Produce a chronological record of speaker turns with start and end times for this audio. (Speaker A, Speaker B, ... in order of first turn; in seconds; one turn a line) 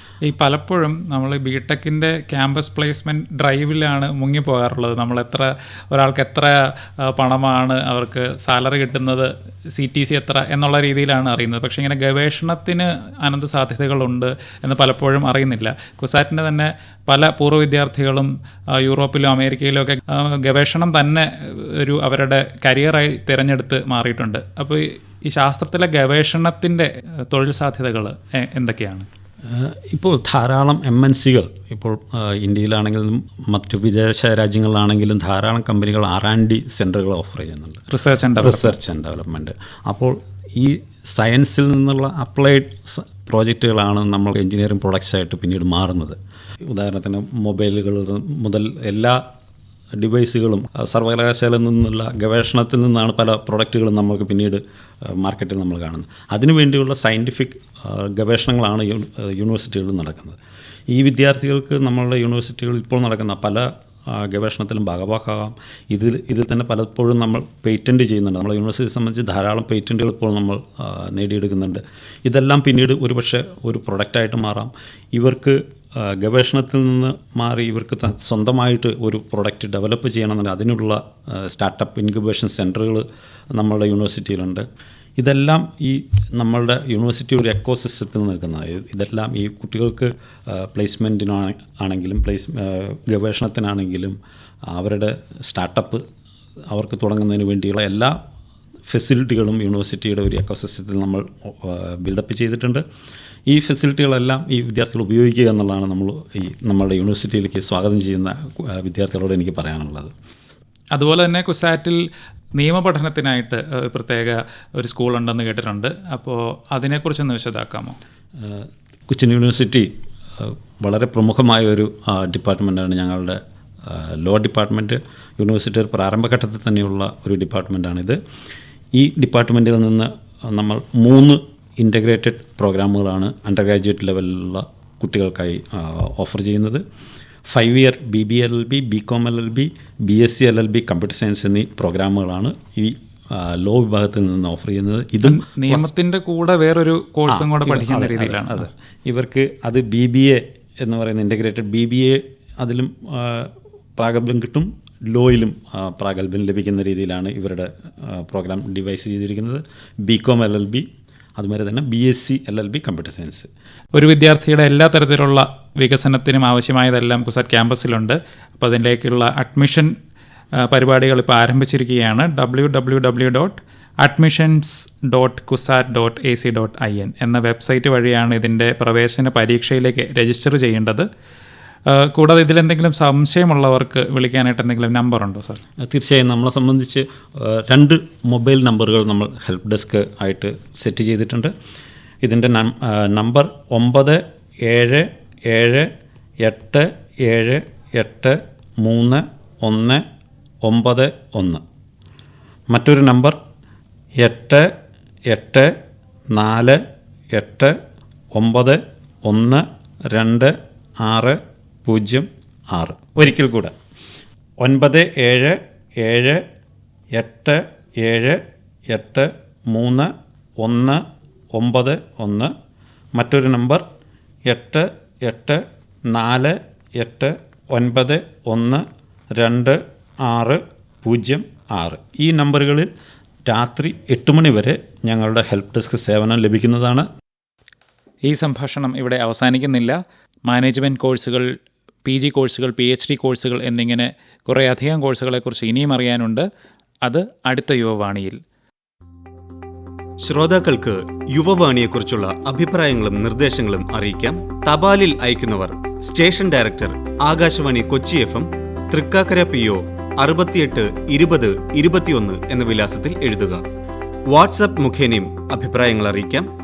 Speaker A: 0.2-29.1
Speaker B: 29.4-37.8
Speaker A: 37.9-38.8
Speaker B: 38.4-46.2
Speaker B: 46.7-49.2
Speaker B: 50.0-60.4
Speaker B: 60.9-84.7
Speaker B: 85.2-94.2
Speaker B: 94.7-96.0
Speaker B: 96.7-98.1
Speaker B: 98.9-102.8
Speaker B: 103.5-110.1
Speaker A: 110.9-112.0
Speaker A: 112.6-118.0
Speaker B: 118.4-128.2
Speaker B: 128.9-136.8
Speaker B: 137.5-145.9
Speaker A: 145.2-148.7
Speaker B: 147.3-163.5
Speaker A: 163.9-169.9
Speaker A: 170.6-181.1
Speaker A: 181.9-185.6
Speaker B: 185.8-191.5
Speaker B: 192.2-195.9
Speaker B: 196.4-200.0
Speaker B: 200.6-201.6
Speaker B: 202.7-203.4
Speaker B: 204.2-204.7
Speaker B: 205.3-205.7
Speaker B: 206.3-206.8
Speaker B: 207.3-207.8
Speaker B: 208.3-213.7
Speaker B: 214.6-216.4
Speaker B: 217.1-221.0
Speaker B: 221.5-222.5
Speaker B: 223.2-223.8
Speaker B: 224.5-228.8
Speaker B: 229.3-232.9
Speaker B: 233.4-237.1
Speaker A: 238.2-241.5
Speaker A: 242.0-246.5
Speaker A: 247.0-248.4
Speaker C: 250.2-263.6
Speaker C: 264.3-266.5